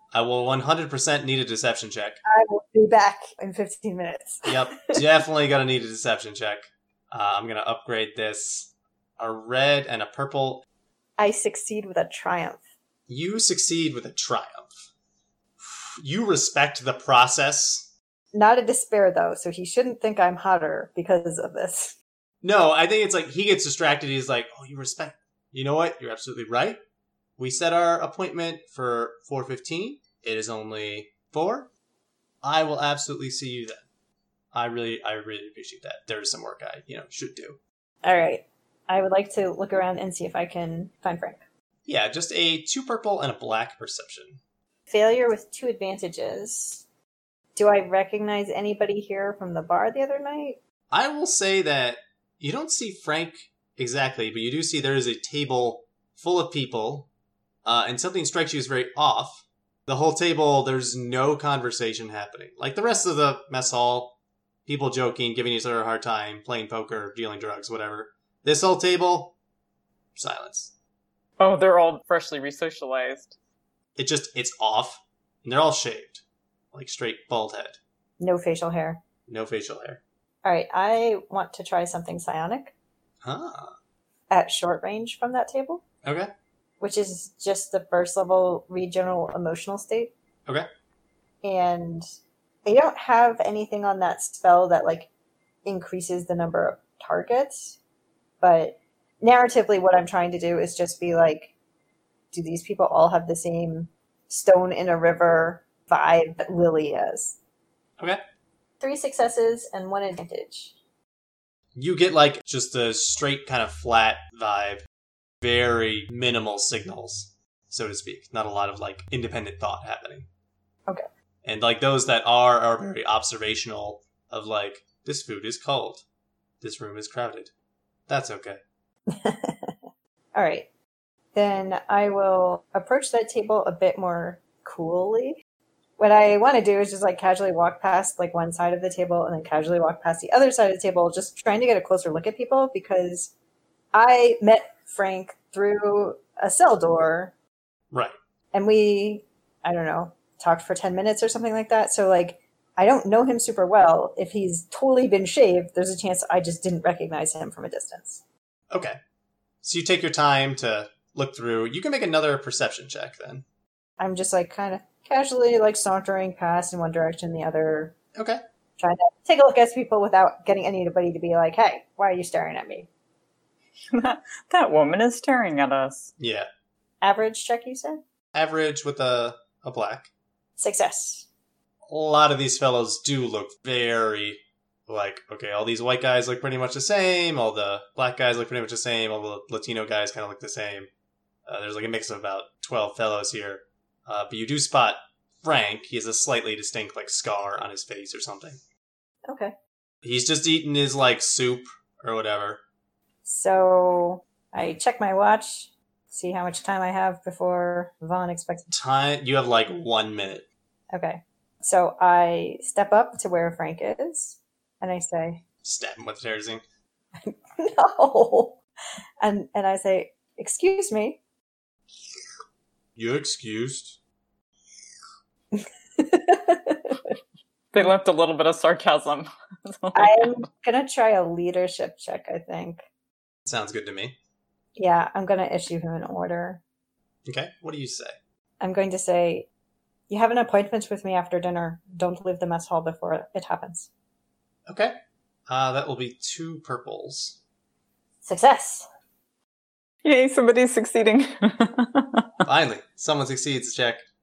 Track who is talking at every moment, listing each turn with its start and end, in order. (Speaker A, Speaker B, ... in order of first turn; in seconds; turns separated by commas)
Speaker A: 0.1-2.2, Speaker B: 2.2-5.0, Speaker A: 4.5-10.7, Speaker B: 11.2-12.6, Speaker A: 13.1-14.7, Speaker A: 15.6-17.9, Speaker B: 18.3-22.0, Speaker A: 22.4-26.8, Speaker A: 27.4-31.7, Speaker A: 32.4-33.9, Speaker A: 34.5-37.6, Speaker B: 38.0-41.4, Speaker A: 41.9-44.4, Speaker B: 44.9-46.8, Speaker B: 47.6-50.6, Speaker A: 50.9-57.1, Speaker A: 57.6-69.3, Speaker A: 70.2-70.7, Speaker C: 71.4-73.3, Speaker A: 74.0-77.8, Speaker B: 78.2-79.0, Speaker A: 79.3-80.0, Speaker B: 80.4-82.7, Speaker A: 83.2-83.8, Speaker B: 84.3-85.8, Speaker A: 86.0-86.3, Speaker B: 86.8-90.1, Speaker B: 91.4-92.0, Speaker B: 92.7-95.1, Speaker B: 95.7-97.8, Speaker B: 98.4-101.5, Speaker B: 102.3-107.4, Speaker B: 108.8-110.7, Speaker A: 111.8-114.8, Speaker A: 115.4-120.3, Speaker A: 121.4-126.0, Speaker A: 126.6-127.5, Speaker A: 128.1-128.6, Speaker B: 129.1-129.8, Speaker B: 130.3-130.7, Speaker B: 131.3-135.4, Speaker B: 136.0-143.3, Speaker B: 143.9-147.3, Speaker B: 148.5-158.2, Speaker A: 158.7-159.0, Speaker A: 159.6-163.4, Speaker B: 164.0-167.9, Speaker A: 168.2-168.4, Speaker B: 168.8-172.9, Speaker C: 173.9-176.1, Speaker A: 176.2-176.5, Speaker B: 177.0-178.0, Speaker A: 178.3-180.1, Speaker B: 180.6-181.3, Speaker A: 181.9-190.9, Speaker A: 191.5-198.6, Speaker B: 199.3-199.5, Speaker A: 200.0-202.6, Speaker B: 203.3-208.7, Speaker A: 208.7-210.5, Speaker B: 210.9-215.4, Speaker A: 215.6-216.6, Speaker B: 217.2-218.6, Speaker B: 219.2-221.2, Speaker A: 223.0-224.0, Speaker B: 225.5-227.0, Speaker C: 227.7-230.4, Speaker B: 229.9-232.8, Speaker A: 233.5-234.2, Speaker B: 234.8-236.6, Speaker A: 237.2-238.2, Speaker B: 238.6-239.5, Speaker B: 240.1-243.9, Speaker A: 244.7-245.0, Speaker A: 245.5-247.4, Speaker B: 248.2-248.9, Speaker C: 250.0-252.3, Speaker A: 252.4-254.1